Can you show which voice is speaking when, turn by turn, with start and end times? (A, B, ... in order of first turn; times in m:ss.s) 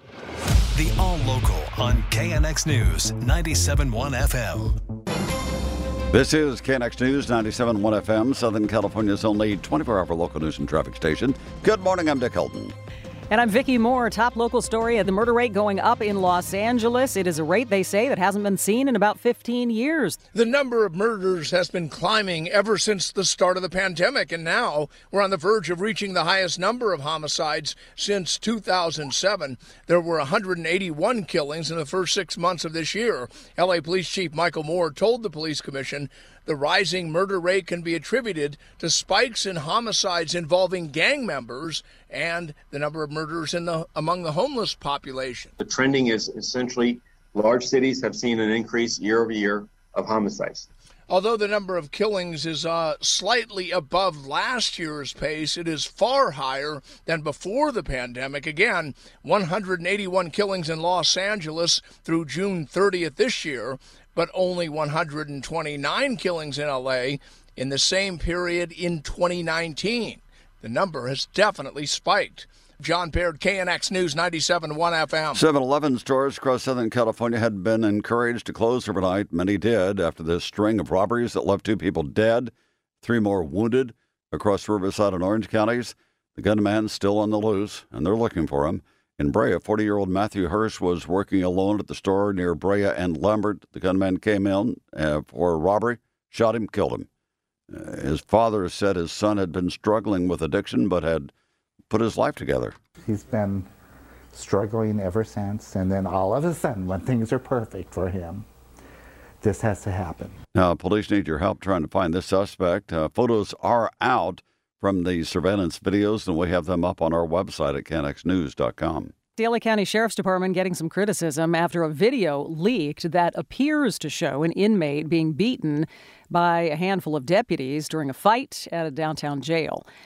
0:00.8-0:04.7 A
0:06.1-0:12.7 B
0:13.3-0:20.2 C
0:20.3-0:45.5 D
0:45.6-0:50.7 E
0:51.1-1:15.4 D
1:15.3-1:37.1 B
1:37.7-1:41.3 B
1:41.9-1:42.8 B
1:43.0-1:43.7 F
1:44.3-1:48.4 F
1:49.4-1:50.3 F
1:50.5-1:59.1 B
1:59.4-2:09.8 C